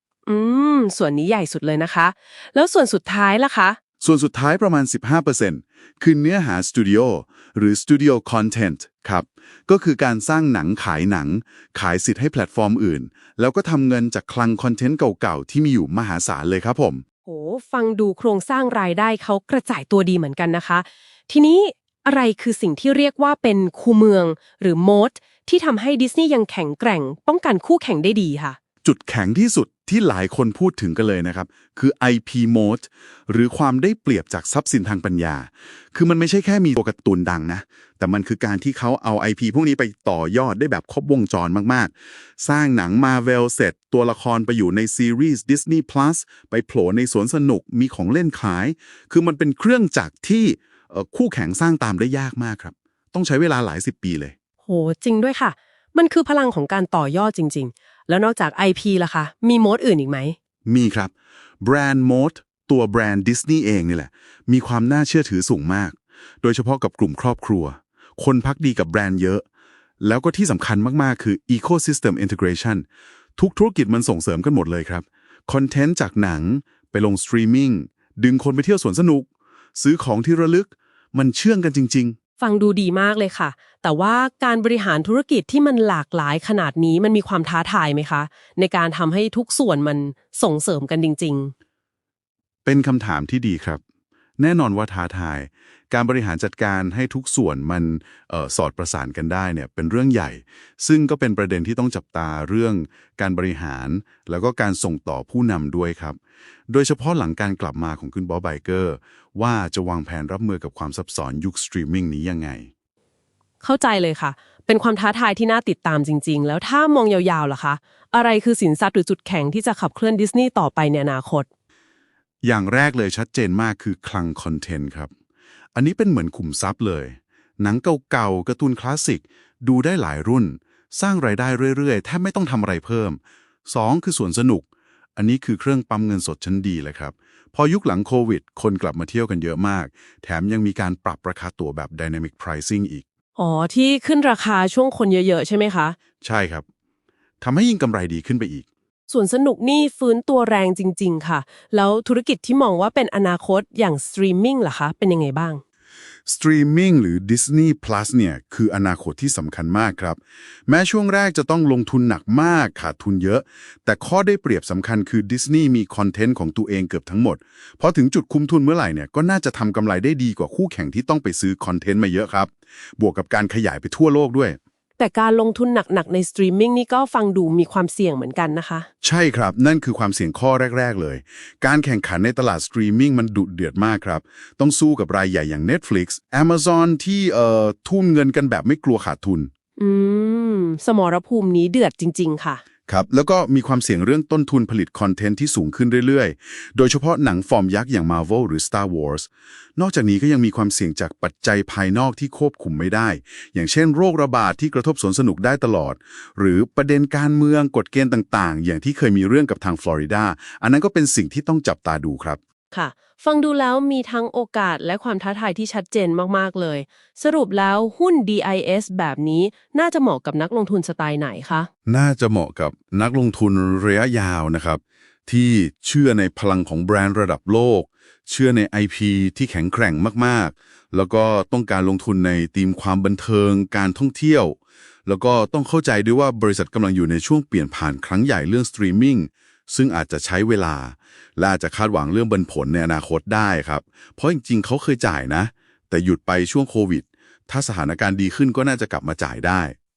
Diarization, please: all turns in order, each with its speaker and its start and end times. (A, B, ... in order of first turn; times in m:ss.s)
0:00.3-0:03.8 A
0:04.0-0:17.0 B
0:17.2-0:28.6 A
0:28.8-0:54.3 B
0:54.6-1:00.4 A
1:00.6-1:09.4 B
1:10.0-1:12.8 B
1:13.4-1:22.2 B
1:22.4-1:31.5 A
1:32.6-1:33.8 B
1:34.4-1:46.2 B
1:46.7-1:52.7 B
1:53.6-2:01.5 A
2:02.4-2:05.1 B
2:05.7-2:23.0 B
2:23.4-2:25.9 A
2:26.2-2:26.6 B
2:27.4-2:28.6 B
2:29.1-2:35.6 A
2:36.2-2:54.6 B
2:55.0-2:58.9 A
2:59.0-3:09.5 B
3:09.8-3:12.6 A
3:12.9-3:32.4 B
3:32.7-3:41.7 A
3:41.9-4:09.7 B